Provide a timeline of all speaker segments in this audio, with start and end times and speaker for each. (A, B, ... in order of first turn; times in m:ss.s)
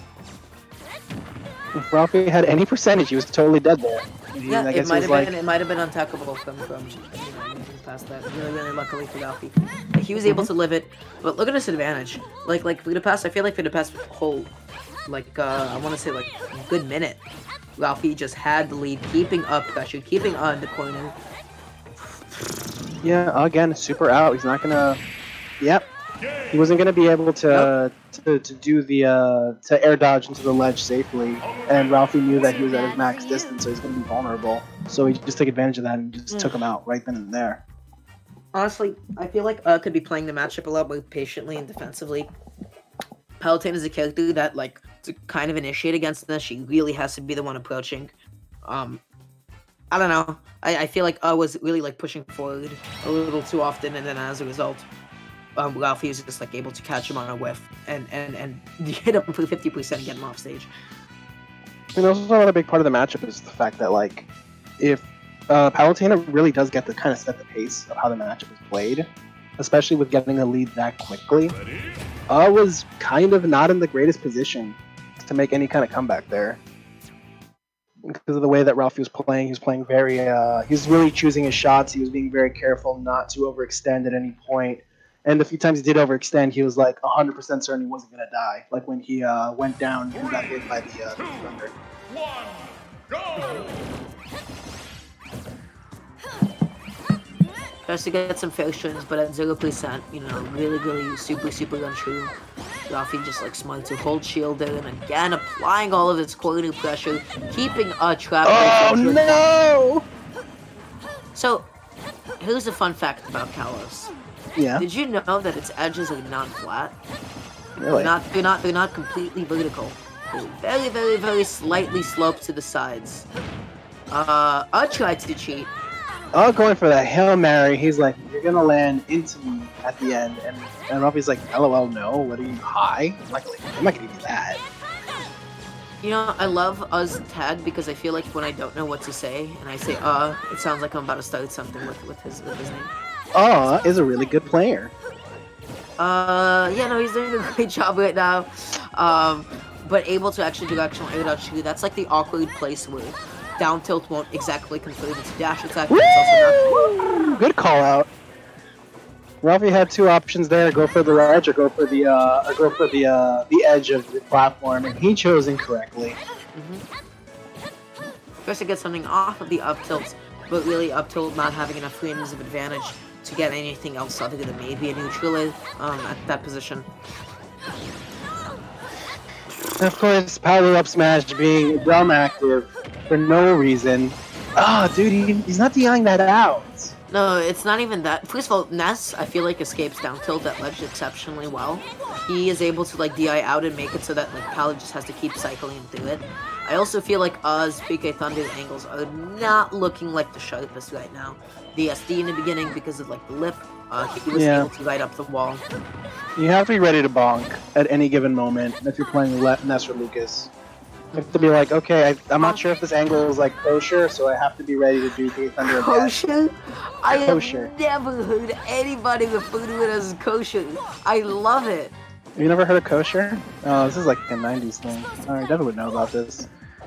0:01.7-0:05.3 A
0:04.5-0:14.5 B
0:10.2-0:10.5 A
0:15.1-0:17.2 B
0:17.8-0:21.2 B
0:23.0-0:25.0 A
0:25.6-0:25.9 A
0:26.5-0:37.6 A
0:36.3-0:36.6 B
0:38.5-0:42.3 B
0:43.4-0:48.1 B
0:48.6-0:49.0 B
0:49.9-0:54.9 B
0:55.6-1:00.7 B
1:02.0-1:04.3 A
1:04.8-1:09.1 A
1:09.6-1:11.6 A
1:12.3-1:16.6 A
1:18.0-1:31.7 A
1:37.9-1:42.3 B
1:42.9-1:49.4 B
1:48.4-1:50.0 A
1:51.4-1:51.7 B
1:52.4-1:54.1 B
1:54.6-1:54.9 A
1:54.8-1:57.0 B
1:57.8-1:58.1 A
1:57.9-2:03.3 B
2:04.1-2:05.7 B
2:06.3-2:14.6 A
2:16.0-2:22.9 B
2:23.3-2:24.9 A
2:26.0-2:36.8 B
2:35.9-2:38.1 A
2:39.4-2:46.2 A
2:46.5-2:46.8 B
2:48.4-2:56.9 B
2:59.8-3:07.0 A
3:07.1-3:25.6 B
3:24.3-3:24.7 A
3:26.4-3:30.5 A
3:31.1-3:31.5 B
3:31.2-3:36.2 A
3:35.7-3:42.0 B
3:37.1-3:37.7 A
3:42.4-3:46.5 A